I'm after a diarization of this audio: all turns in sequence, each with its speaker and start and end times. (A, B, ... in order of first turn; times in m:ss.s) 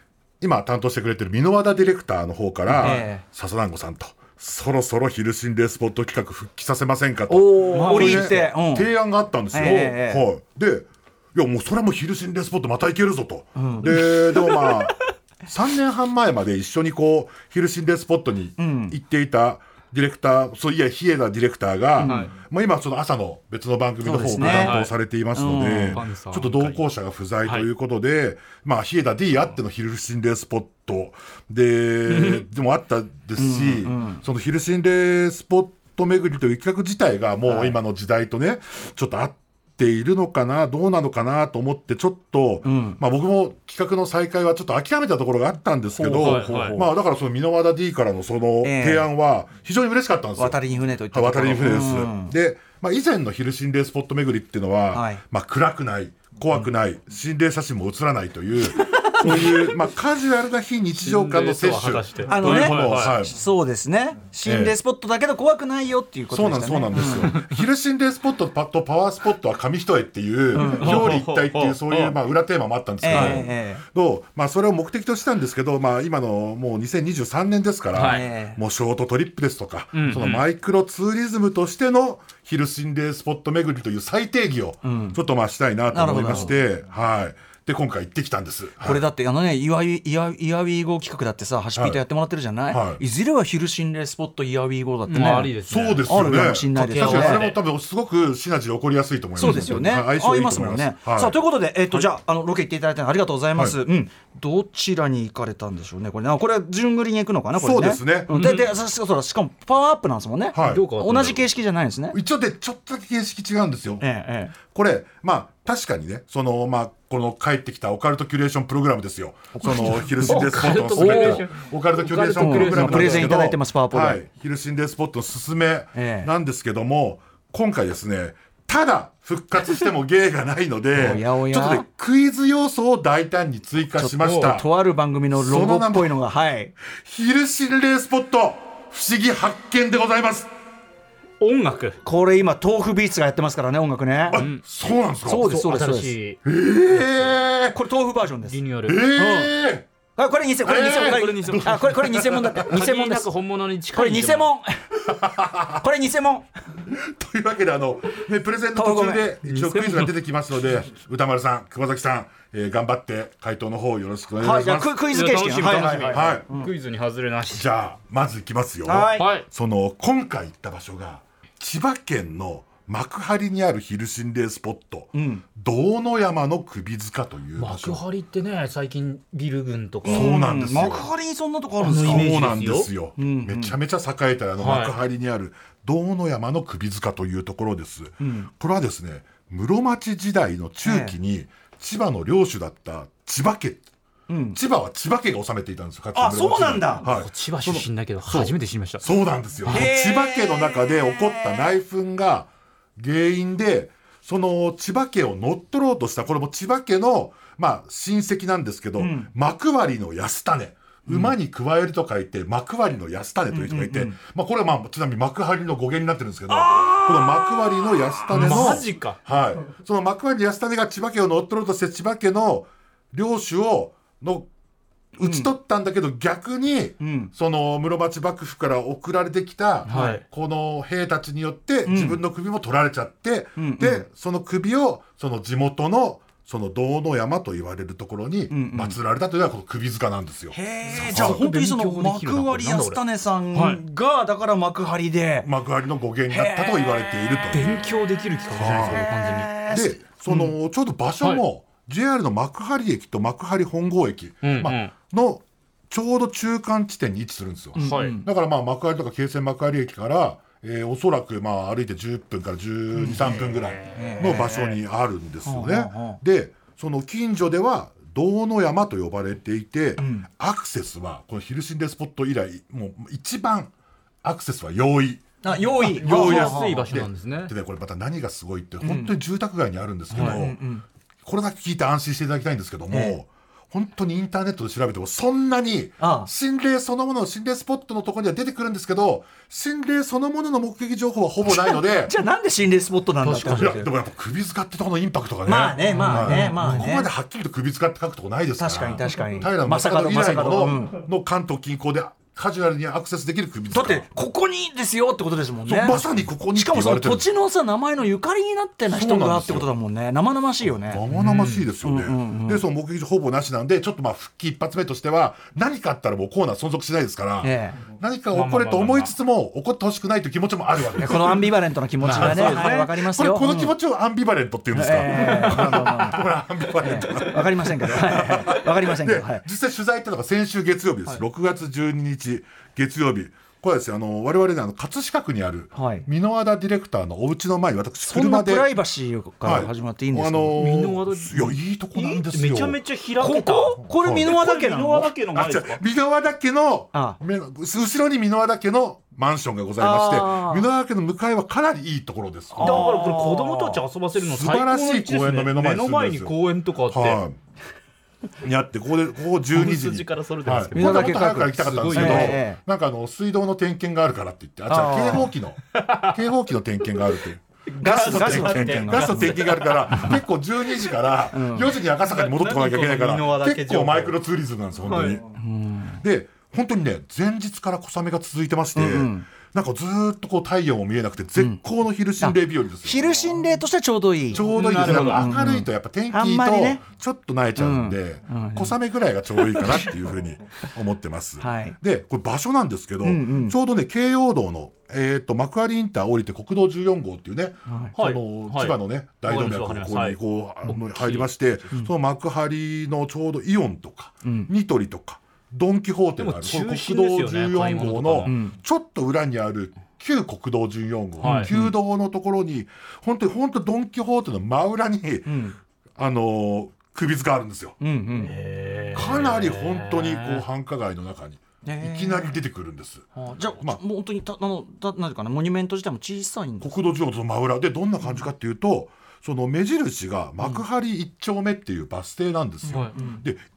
0:00.4-0:50.6 A
0:02.8-0:03.2 B
0:07.3-0:08.9 B
0:07.7-0:08.5 C
0:09.5-0:10.2 B
0:13.6-0:14.0 B
0:14.4-0:14.9 C
0:18.6-0:19.0 B
0:22.0-0:22.3 B
0:22.0-0:22.3 C
0:24.0-0:24.8 B
0:24.4-0:24.9 C
0:25.4-0:26.0 B
0:25.9-0:26.8 C
0:32.1-0:32.4 C
0:33.4-0:34.2 B
0:37.5-0:37.8 B
0:42.6-0:43.0 B
0:46.0-0:46.5 B
0:46.2-0:46.8 C
0:48.6-0:49.1 B
0:50.4-0:52.3 B
0:51.1-1:03.4 A
0:54.9-0:55.2 B
0:58.9-0:59.4 B
0:59.3-0:59.6 C
1:01.0-1:03.2 C
1:02.3-1:07.4 B
1:04.4-1:04.8 A
1:06.3-1:29.0 A
1:07.0-1:07.5 C
1:10.5-1:11.1 B
1:10.6-1:12.2 C
1:13.0-1:13.8 B
1:13.1-1:13.4 C
1:17.9-1:18.2 C
1:18.0-1:18.6 B
1:20.0-1:20.4 C
1:24.8-1:25.2 B
1:25.9-1:26.5 B
1:28.8-1:35.5 B
1:31.8-1:32.0 A
1:32.7-1:33.0 A
1:35.1-1:37.6 C
1:35.7-1:41.4 A
1:36.1-1:37.5 B
1:39.4-1:52.2 B
1:39.4-1:39.7 C
1:47.6-1:48.4 A
1:48.3-1:48.7 C
1:50.5-1:51.3 A
1:50.6-1:51.4 C
1:52.1-1:54.0 A
1:54.0-1:54.6 B
1:54.6-2:14.7 A
1:59.6-2:00.4 B
2:00.2-2:03.4 C
2:01.0-2:01.4 B
2:02.4-2:04.2 B
2:06.0-2:06.3 B
2:10.9-2:11.9 B
2:14.0-2:16.7 B
2:14.2-2:14.5 C
2:15.3-2:16.2 A
2:16.9-2:20.5 A
2:21.4-2:22.0 C
2:22.0-2:24.4 B
2:24.3-2:25.6 A
2:24.3-2:24.6 C
2:25.2-2:26.2 B
2:25.4-2:26.4 C
2:26.4-2:27.8 A
2:27.7-2:29.5 B
2:28.5-2:29.1 C
2:28.8-2:29.9 A
2:30.2-2:33.3 B
2:30.6-2:32.7 A
2:30.8-2:31.8 C
2:32.6-2:34.5 C
2:33.9-2:35.0 B
2:35.1-2:35.8 A
2:35.7-2:36.5 B
2:36.9-2:45.0 A
2:38.8-2:39.3 B
2:39.4-2:40.2 C
2:44.4-2:46.7 B
2:45.0-2:47.7 C
2:46.1-2:46.5 A
2:47.5-2:58.0 A
2:48.8-2:49.3 B
2:49.2-2:49.5 C
2:55.1-2:55.4 B
2:57.6-3:00.4 C
3:00.0-3:02.3 B
3:00.1-3:01.1 A
3:01.8-3:02.9 C
3:02.0-3:13.8 A
3:03.2-3:03.8 B
3:04.6-3:05.0 C
3:08.2-3:08.5 B
3:10.8-3:11.2 B
3:14.3-3:14.6 B
3:14.5-3:44.5 A
3:16.2-3:17.0 B
3:17.0-3:19.0 C
3:19.7-3:21.8 B
3:29.0-3:29.3 B
3:33.5-3:34.2 B
3:36.5-3:38.8 B
3:38.3-3:39.2 C
3:45.2-4:01.4 A
3:45.2-3:45.5 B
3:47.0-3:47.3 B
3:49.9-3:50.2 C
3:49.9-3:50.2 B
3:51.8-3:52.2 B
3:53.6-3:54.1 B
3:58.5-3:59.0 B
4:00.5-4:05.5 B
4:00.9-4:03.0 C
4:03.5-4:03.8 C
4:05.4-4:07.8 A
4:06.3-4:07.6 B
4:07.5-4:09.5 C
4:08.5-4:09.1 A
4:08.7-4:10.5 B
4:09.7-4:33.7 A
4:14.4-4:14.9 C
4:17.8-4:18.3 B
4:17.8-4:18.2 C
4:23.1-4:24.7 C
4:23.9-4:24.7 B
4:25.4-4:26.2 B
4:30.0-4:30.3 B
4:34.2-4:35.3 A
4:35.4-4:36.9 B
4:35.8-4:40.6 A
4:35.8-4:37.5 C
4:38.8-4:39.1 B
4:40.1-4:40.4 C
4:40.1-4:40.8 B
4:41.2-4:52.2 A
4:42.9-4:43.2 B
4:46.0-4:46.3 B
4:51.5-4:53.9 B
4:53.2-4:53.8 C
4:53.5-5:04.1 A
4:55.4-4:57.1 B
4:55.9-4:56.8 C
4:58.6-5:01.0 B
5:03.7-5:11.0 B
5:05.7-5:07.3 A
5:08.9-5:09.7 A
5:10.6-5:38.7 A
5:11.1-5:11.7 C
5:11.8-5:12.6 B
5:17.4-5:17.8 B
5:18.3-5:19.2 C
5:21.0-5:23.7 B
5:22.0-5:22.9 C
5:24.7-5:26.2 B
5:26.8-5:29.4 B
5:35.8-5:36.1 B
5:38.0-5:40.6 B
5:39.4-5:42.8 A
5:40.6-5:45.8 C
5:43.2-5:45.1 B
5:43.8-5:44.4 A
5:45.3-5:52.9 A
5:49.8-5:50.7 B
5:52.6-5:57.2 C
5:52.6-5:53.8 B
5:54.2-5:56.4 A
5:56.9-5:57.4 A
5:58.4-6:15.2 A
5:59.5-6:02.4 C
6:00.7-6:02.6 B
6:04.7-6:05.3 B
6:05.7-6:06.2 C
6:07.7-6:10.2 C
6:07.8-6:09.4 B
6:11.3-6:11.7 B
6:12.0-6:14.2 C
6:14.9-6:15.2 C
6:15.4-6:16.0 B
6:16.0-6:23.0 A
6:18.8-6:19.3 B
6:22.2-6:26.8 B
6:24.3-6:55.3 A
6:24.4-6:25.3 C
6:27.6-6:28.8 B
6:29.4-6:29.9 B
6:31.4-6:31.8 B
6:33.0-6:33.6 B
6:37.7-6:37.9 B
6:38.0-6:41.4 C
6:44.2-6:44.5 B
6:46.2-6:48.3 C
6:48.3-6:48.6 B
6:51.2-6:51.5 C
6:51.2-6:51.7 B
6:55.3-6:55.6 B
6:56.0-6:57.8 A
6:57.8-6:58.3 B
6:58.2-7:00.4 C
6:58.9-7:03.1 A
7:01.6-7:02.3 B
7:03.2-7:06.7 B
7:06.6-7:13.4 A
7:12.7-7:13.2 B
7:12.7-7:13.0 C